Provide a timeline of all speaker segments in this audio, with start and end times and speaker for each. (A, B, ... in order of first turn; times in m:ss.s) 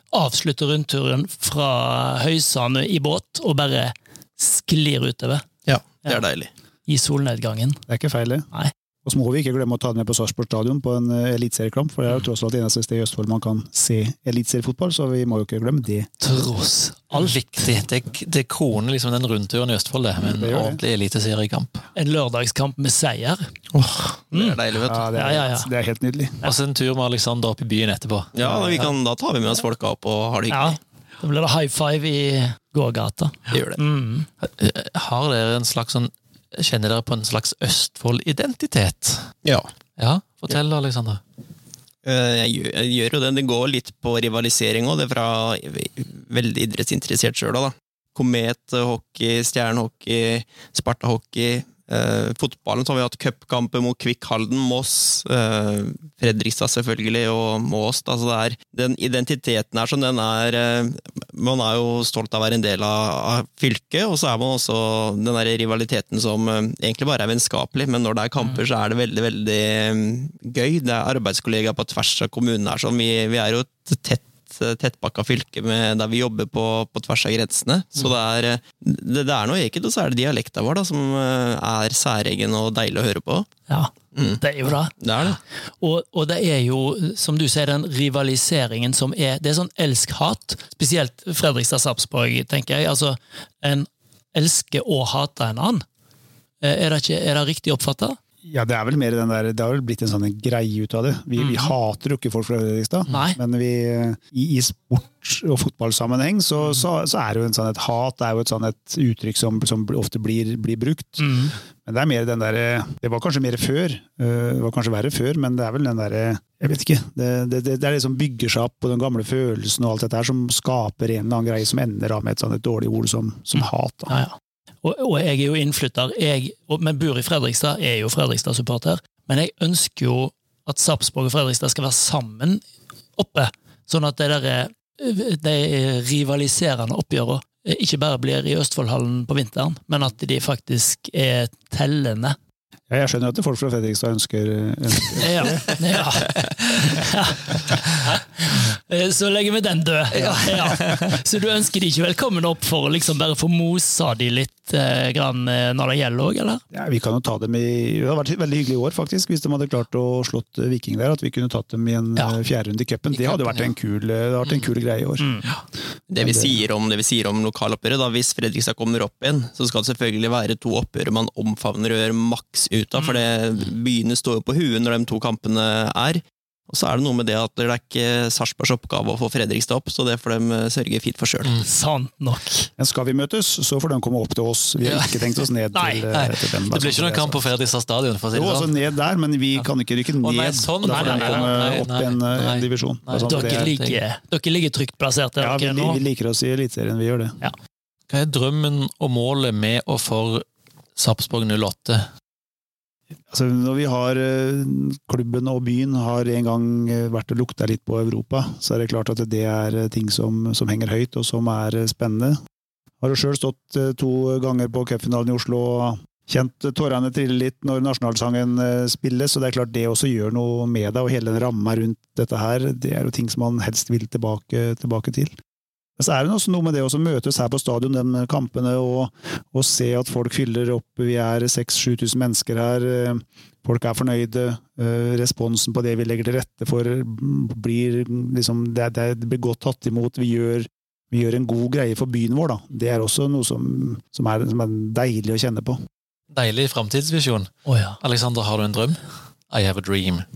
0:00.1-0:05.5 A
0:05.7-0:06.5 B
0:06.9-0:07.8 A
0:07.9-0:08.5 C
0:09.0-0:16.1 C
0:16.2-0:17.7 A
0:17.2-0:21.8 D
0:20.2-0:20.8 C
0:22.0-0:23.5 A
0:23.7-0:25.1 B
0:24.3-0:24.6 A
0:24.9-0:26.4 C
0:25.1-0:25.7 A
0:26.4-0:28.3 D
0:28.3-0:30.8 B
0:30.5-0:34.3 A
0:33.5-0:33.8 B
0:34.4-0:39.3 D
0:40.0-0:41.2 D
0:42.0-1:23.5 B
1:23.7-1:24.9 A
1:24.2-1:24.4 B
1:24.9-1:25.4 B
1:25.8-1:35.8 A
1:36.6-1:38.2 A
1:38.4-2:04.2 C
1:41.4-1:41.7 A
1:43.1-1:43.4 A
1:51.2-1:51.5 A
2:04.1-2:12.6 A
2:13.2-2:22.4 A
2:22.9-2:25.7 C
2:25.2-2:36.6 A
2:30.1-2:31.2 D
2:36.7-2:45.3 C
2:43.3-2:43.6 A
2:45.2-2:45.5 A
2:46.1-3:01.5 B
2:46.2-2:46.6 C
3:01.6-3:02.7 A
3:02.8-3:07.4 C
3:04.8-3:05.3 D
3:05.7-3:06.0 A
3:06.1-3:08.8 D
3:08.3-3:13.7 C
3:10.2-3:14.0 D
3:10.9-3:11.8 A
3:13.3-3:16.0 A
3:15.4-3:17.4 C
3:18.1-3:20.4 D
3:21.0-3:22.1 D
3:23.3-3:32.4 C
3:33.0-3:45.4 C
3:46.0-4:05.8 C
4:06.3-4:10.3 D
4:07.7-4:08.0 A